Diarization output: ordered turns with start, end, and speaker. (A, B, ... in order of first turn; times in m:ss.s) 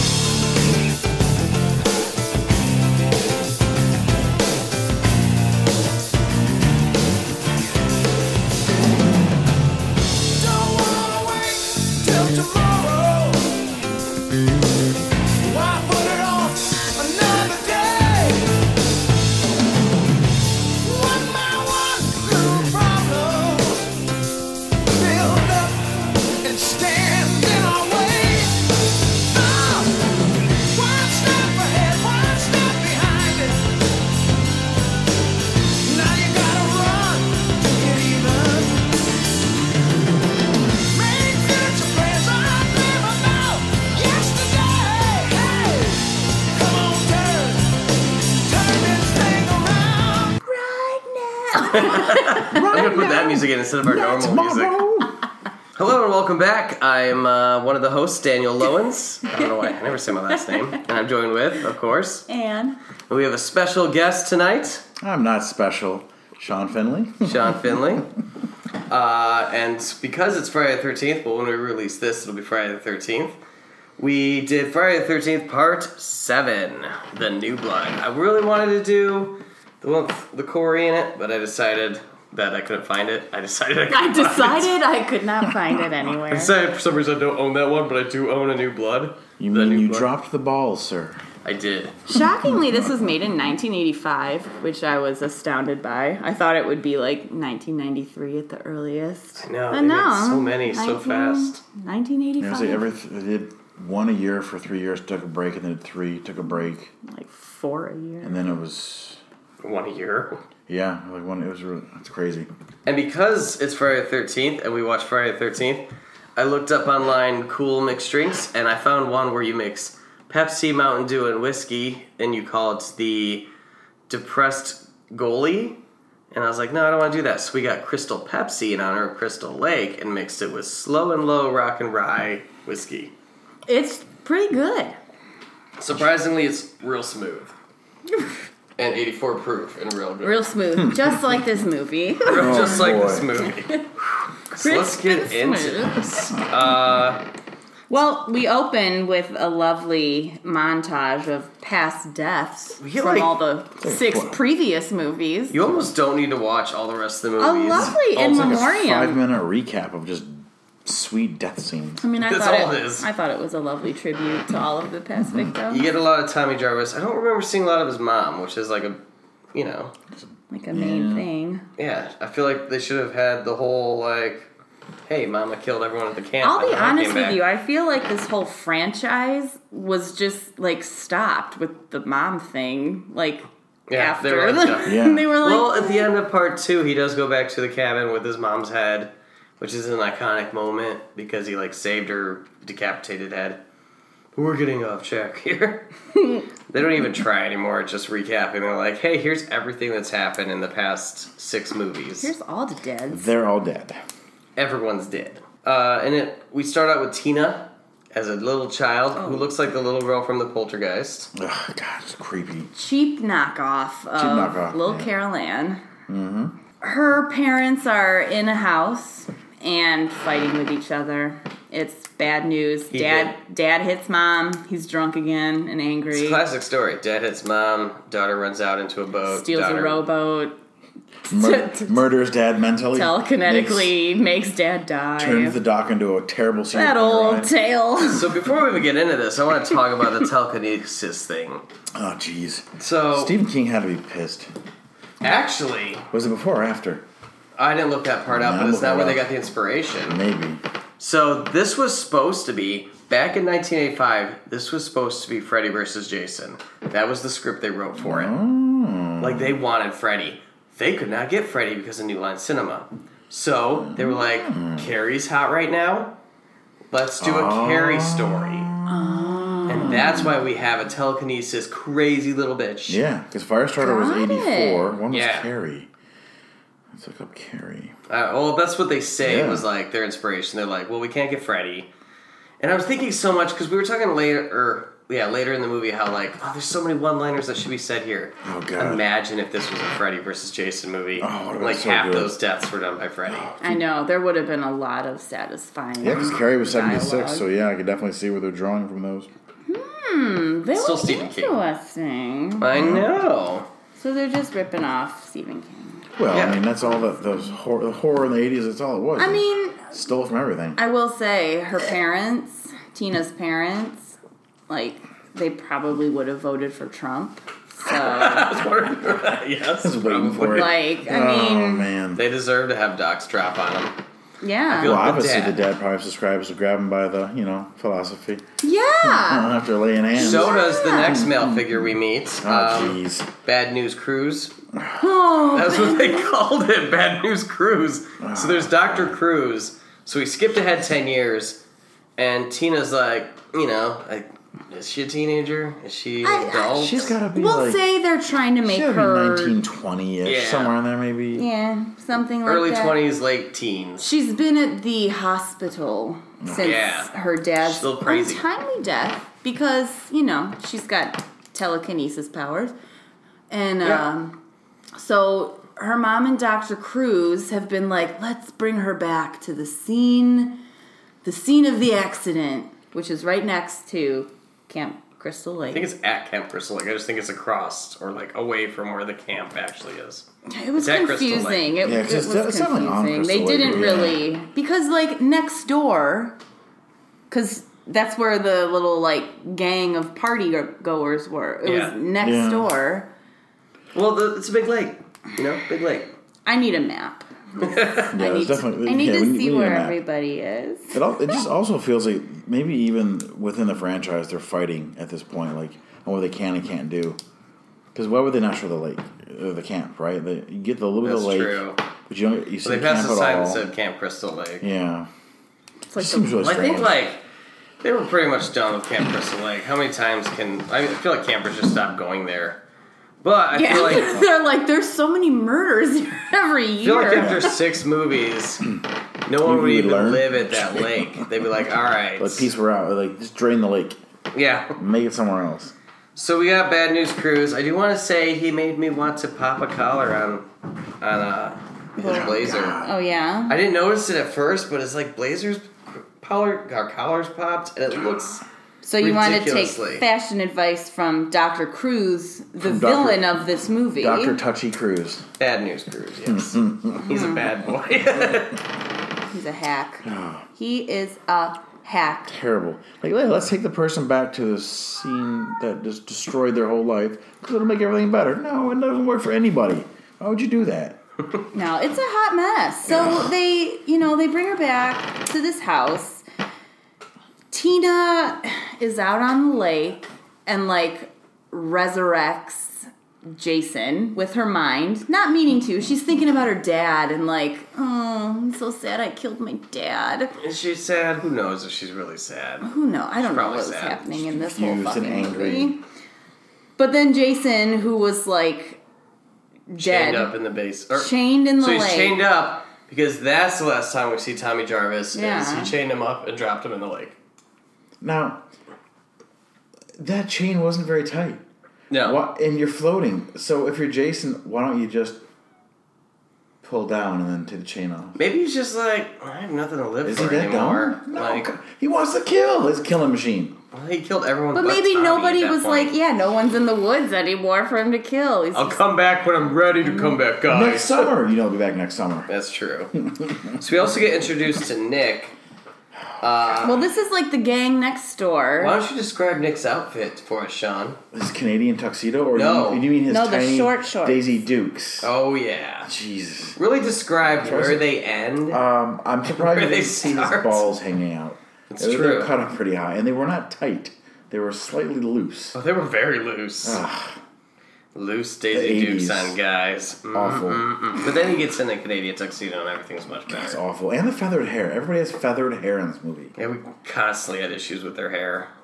0:10.3-0:13.7 A
0:15.4-0:18.7 A
0:20.8-0:24.0 A
0:24.8-0:33.8 A
0:35.8-0:39.0 A
0:40.9-0:50.4 A
0:50.4-0:52.6 B
0:51.7-0:54.8 C
0:52.0-0:55.2 D
0:55.8-1:02.3 C
1:02.3-1:02.8 B
1:03.1-1:04.8 C
1:05.0-1:07.6 D
1:07.2-1:08.1 C
1:08.9-1:13.4 C
1:14.0-1:24.7 C
1:23.9-1:26.5 B
1:26.3-1:30.1 C
1:29.4-1:31.2 D
1:31.4-1:32.0 C
1:32.1-1:42.8 B
1:32.2-1:33.1 D
1:39.4-1:41.6 C
1:42.4-1:46.9 D
1:47.0-1:48.4 B
1:48.2-1:49.2 D
1:49.6-1:50.4 C
1:50.7-1:52.5 D
1:52.8-1:55.8 C
1:56.4-2:03.4 C
2:04.1-2:05.8 C
2:06.3-2:13.1 C
2:13.7-2:14.9 B
2:15.8-2:17.5 C
2:18.8-2:20.5 C
2:20.2-2:22.7 B
2:22.2-2:23.9 C
2:22.3-2:23.3 D
2:23.4-2:23.8 B
2:24.5-2:27.2 C
2:24.6-2:26.0 B
2:27.9-2:35.8 B
2:32.8-2:33.3 C
2:33.8-2:34.4 D
2:35.5-2:38.7 C
2:37.4-2:39.2 B
2:37.8-2:42.0 D
2:42.0-2:45.8 B
2:42.2-2:43.0 C
2:45.2-2:45.5 D
2:45.7-2:49.0 C
2:49.5-2:49.9 C
2:50.2-2:51.2 D
2:50.5-2:51.6 B
2:51.8-2:54.5 C
2:55.1-2:57.4 C
2:56.4-3:06.1 B
3:03.9-3:13.6 C
3:04.8-3:05.3 D
3:14.3-3:15.9 C
3:16.7-3:22.3 C
3:22.2-3:23.2 B
3:23.1-3:24.0 D
3:24.6-3:31.3 C
3:29.2-3:29.5 B
3:31.3-3:32.7 D
3:32.7-3:35.8 B
3:34.2-3:35.1 D
3:36.1-3:36.5 D
3:36.8-3:46.4 B
3:42.9-3:43.3 C
3:46.1-3:50.0 C
3:49.3-3:50.6 B
3:51.3-3:52.0 B
3:51.3-3:53.9 D
3:52.9-3:55.6 B
3:55.2-3:57.5 D
3:56.7-3:58.4 B
3:58.0-4:01.6 C
4:01.9-4:04.5 D
4:02.8-4:03.3 C
4:05.2-4:06.0 C
4:06.1-4:07.0 D
4:07.6-4:10.2 C
4:08.3-4:09.3 D
4:10.1-4:10.6 D
4:11.0-4:18.3 C
4:18.0-4:19.6 D
4:19.2-4:26.1 C
4:23.8-4:24.9 D
4:26.9-4:28.7 C
4:27.2-4:30.3 D
4:28.9-4:29.9 B
4:29.7-4:33.0 C
4:32.9-4:35.9 D
4:33.8-4:35.0 B
4:35.1-4:35.5 C
4:36.9-4:37.9 D
4:38.1-4:41.9 C
4:39.2-4:39.7 D
4:42.6-4:53.5 C
4:48.4-4:49.0 D
4:51.2-4:52.4 D
4:53.3-4:53.8 D
4:53.6-4:57.5 B
4:56.0-4:59.3 D
4:59.7-5:02.7 B
5:00.8-5:01.6 C
5:02.6-5:03.7 C
5:02.7-5:03.1 D
5:04.0-5:06.1 B
5:06.2-5:10.8 D
5:06.3-5:06.6 C
5:09.2-5:09.9 B
5:10.8-5:14.2 B
5:14.7-5:18.6 B
5:17.8-5:20.8 C
5:19.8-5:22.2 D
5:20.5-5:21.9 B
5:22.2-5:24.0 C
5:24.4-5:25.1 B
5:24.7-5:25.6 C
5:24.8-5:28.4 D
5:28.6-5:29.6 B
5:29.0-5:33.3 D
5:30.2-5:31.2 B
5:30.2-5:34.5 C
5:34.8-5:35.0 D
5:35.0-5:36.3 B
5:35.5-5:41.6 C
5:38.2-5:39.2 D
5:42.2-5:47.2 C
5:46.2-5:49.6 B
5:46.7-5:47.8 D
5:48.6-5:51.4 D
5:50.2-5:50.8 C
5:51.3-5:53.0 B
5:52.5-5:54.1 C
5:54.0-6:02.7 B
5:56.4-5:56.8 D
5:56.6-5:57.1 C
5:57.6-5:58.4 C
6:03.5-6:04.4 B
6:03.8-6:04.1 C
6:04.9-6:10.6 B
6:11.2-6:15.8 B
6:15.7-6:20.2 C
6:20.5-6:26.4 B
6:20.8-6:21.7 C
6:21.8-6:24.2 D
6:27.3-6:33.1 B
6:31.6-6:31.9 C
6:32.2-6:32.7 D
6:33.9-6:36.1 C
6:36.5-6:41.4 B
6:37.6-6:38.1 C
6:38.1-6:40.0 D
6:40.9-6:47.2 D
6:47.9-6:53.6 D
6:51.0-6:51.8 C
6:52.6-6:54.6 C
6:54.6-6:55.1 D
6:55.9-6:56.5 B
6:56.0-6:57.0 D
6:56.4-6:57.2 C
6:57.8-7:02.6 C
7:03.2-7:04.2 C
7:03.5-7:07.5 B
7:06.8-7:08.7 C
7:07.2-7:07.5 D
7:09.2-7:12.5 C
7:09.4-7:11.3 D
7:12.2-7:14.0 D
7:14.3-7:14.8 C
7:14.8-7:15.7 D
7:16.2-7:20.5 C
7:21.0-7:22.8 C
7:22.0-7:23.6 B
7:22.0-7:22.9 D
7:23.5-7:28.4 C
7:28.8-7:34.4 B
7:29.0-7:30.0 C
7:32.6-7:33.3 D
7:34.0-7:35.2 D
7:35.4-7:38.6 C
7:36.3-7:37.0 D
7:37.0-7:37.5 B
7:39.3-7:42.3 B
7:40.0-7:40.4 D
7:42.3-7:51.0 D
7:51.5-7:56.2 B
7:52.9-7:53.3 D
7:57.5-8:10.4 B
8:10.4-8:12.7 C
8:12.6-8:15.8 B
8:13.2-8:14.1 C
8:14.2-8:15.8 D
8:16.8-8:18.8 B
8:19.7-8:20.3 B
8:19.8-8:27.2 C
8:20.9-8:22.2 B
8:25.1-8:25.7 B
8:28.0-8:28.4 D
8:30.0-8:31.4 D
8:31.9-8:32.2 C
8:32.0-8:35.2 D
8:36.6-8:38.2 D
8:38.2-8:41.5 C
8:40.0-8:43.6 D
8:43.7-8:45.9 C
8:44.5-8:48.8 B
8:48.5-8:51.1 C
8:49.8-8:50.2 B
8:50.5-8:52.3 D
8:52.3-8:52.9 C
8:53.6-8:55.3 C
8:56.2-8:56.8 C
8:56.6-8:58.8 B
8:58.6-9:01.0 C
9:01.1-9:05.1 D
9:02.3-9:02.8 C
9:03.1-9:04.3 B
9:05.0-9:05.9 C
9:05.9-9:06.6 D
9:06.6-9:08.6 C
9:07.4-9:07.8 D
9:08.5-9:15.6 D
9:09.3-9:10.6 C
9:11.7-9:12.3 C
9:15.5-9:16.8 C
9:16.6-9:17.2 D
9:17.9-9:23.6 C
9:18.5-9:19.4 D
9:20.1-9:20.7 D
9:23.3-9:26.3 D
9:26.4-9:28.5 C